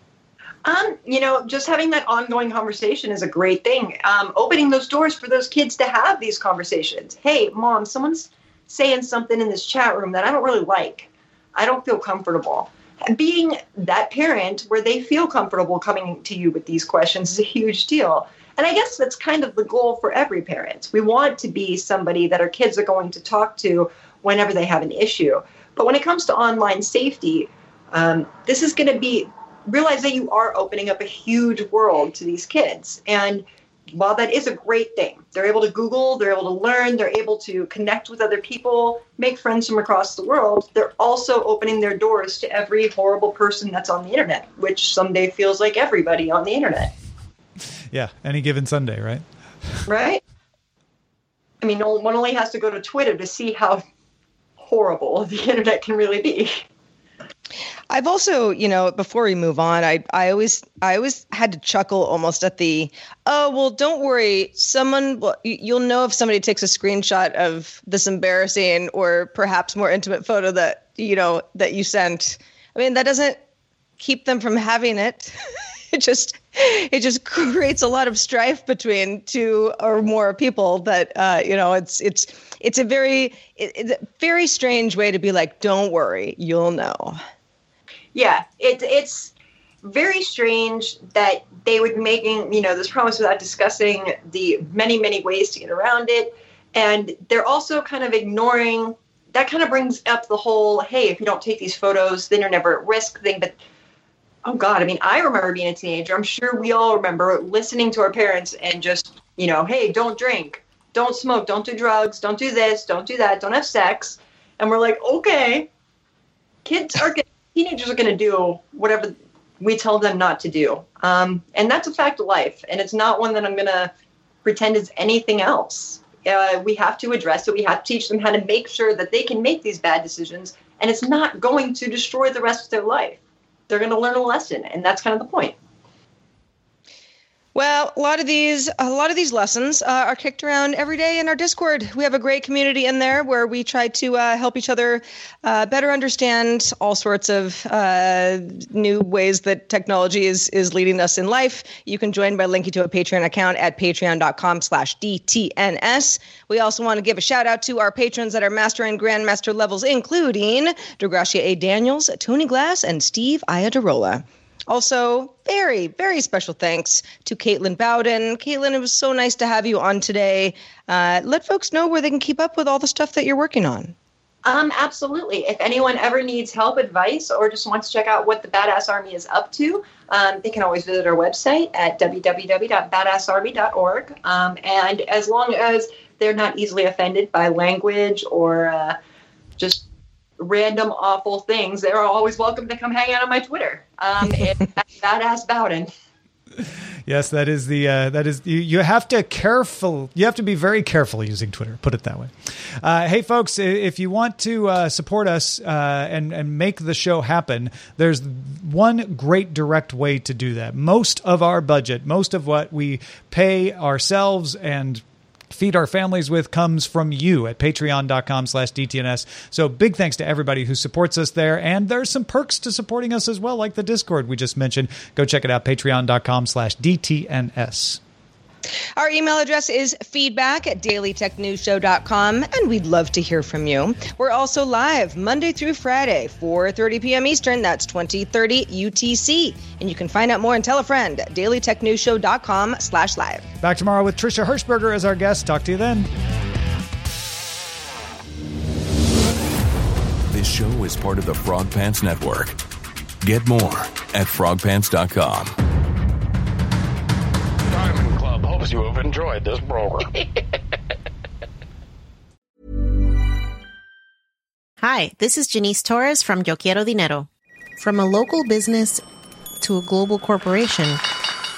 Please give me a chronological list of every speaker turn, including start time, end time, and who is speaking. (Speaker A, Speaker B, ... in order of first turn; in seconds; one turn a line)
Speaker A: 0.6-46.9
Speaker B: 47.9-49.8
Speaker A: 49.9-50.2
Speaker A: 51.6-53.8
Speaker A: 54.6-56.6
Speaker C: 57.9-73.4
Speaker C: 74.0-75.3
Speaker C: 75.9-87.2
Speaker A: 88.1-103.6
Speaker A: 104.4-115.7
Speaker A: 116.6-123.9
Speaker A: 124.4-135.5
Speaker C: 137.5-173.9
Speaker A: 174.4-188.9
Speaker A: 189.6-189.8
Speaker A: 190.4-195.9
Speaker B: 196.6-228.0
Speaker C: 228.9-243.4
Speaker B: 243.6-246.1
Speaker D: 250.3-252.6
Speaker D: 253.2-255.5
Speaker E: 257.7-260.2
Speaker F: 264.8-269.0
Speaker F: 269.6-271.0